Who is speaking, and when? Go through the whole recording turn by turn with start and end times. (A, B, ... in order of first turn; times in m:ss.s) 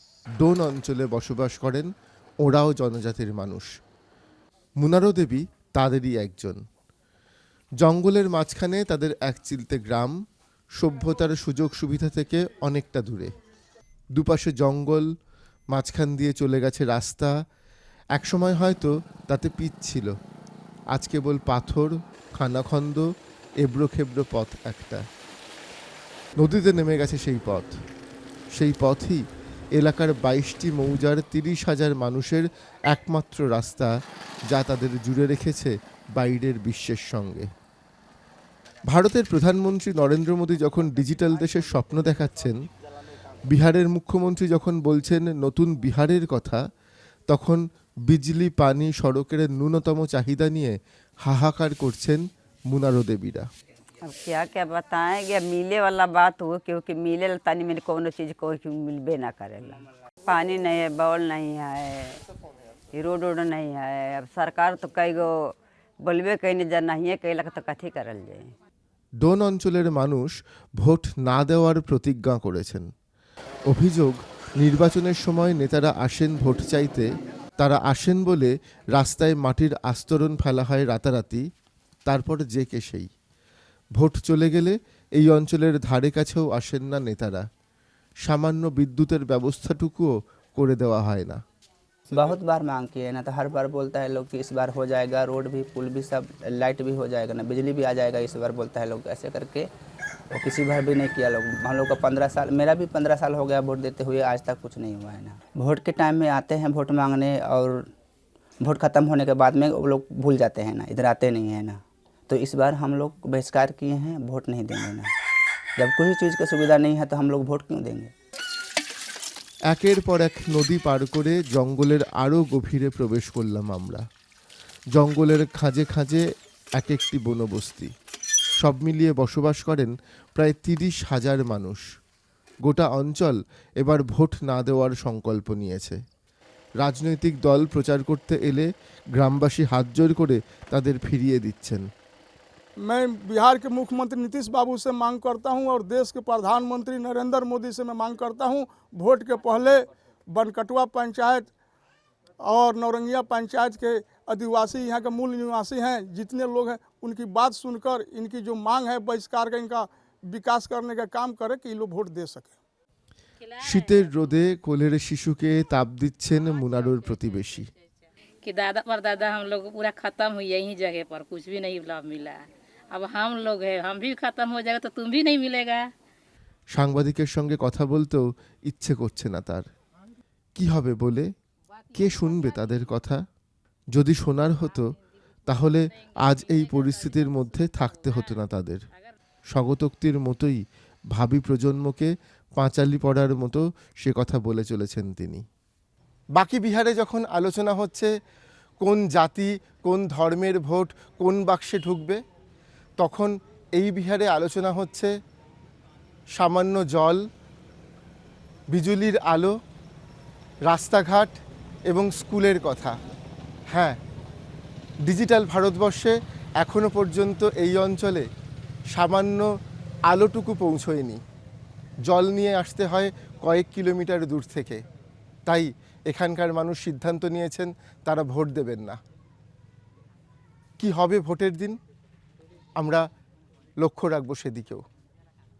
0:00.4-0:01.9 A
0:02.4-0:03.7 A
0:04.8-0:06.6 A
0:07.8-0:10.1 A
0:10.8-0:13.3 A
0:14.2-0:15.1 A
0:15.7-0:17.3 A
0:18.2-0:20.1 A
0:20.9-0:23.0 A
0:23.6-0:25.0 A
0:26.4-0:27.7 A
0:28.6-0:29.2 A
0:29.8-0:33.9 A
0:34.5-0:37.4 A
0:38.9-0:42.6 A
0:43.5-0:46.6 A
0:47.3-0:53.5 A
0:54.0-1:02.2 B
1:02.9-1:08.5 B
1:09.2-1:12.9 A
1:13.7-1:17.1 A
1:17.6-1:21.4 A
1:22.1-1:23.1 A
1:24.0-1:27.4 A
1:28.2-1:31.4 A
1:32.1-1:39.7 C
1:40.3-1:47.8 C
1:48.6-1:55.1 C
1:55.8-1:58.1 C
1:59.7-2:04.0 A
2:05.0-2:06.2 A
2:06.8-2:07.9 A
2:08.6-2:11.8 A
2:12.6-2:16.0 A
2:16.8-2:21.8 A
2:22.8-2:31.5 D
2:32.4-2:42.6 D
2:43.4-2:44.2 E
2:43.6-2:47.7 A
2:48.4-2:55.9 E
2:56.7-2:59.6 A
3:00.5-3:01.3 A
3:01.9-3:03.2 A
3:03.9-3:04.9 A
3:05.5-3:08.8 A
3:06.8-3:07.0 E
3:09.5-3:10.6 A
3:11.1-3:15.4 A
3:16.4-3:18.1 A
3:18.8-3:22.2 A
3:23.0-3:25.1 A
3:26.4-3:27.2 A
3:28.7-3:29.5 A
3:30.7-3:31.3 A
3:31.9-3:32.9 A
3:35.1-3:38.2 A
3:38.9-3:39.4 A
3:40.1-3:41.2 A
3:42.1-3:44.8 A
3:45.5-3:49.0 A
3:50.8-3:51.8 A
3:52.8-3:53.0 A
3:53.8-3:54.8 A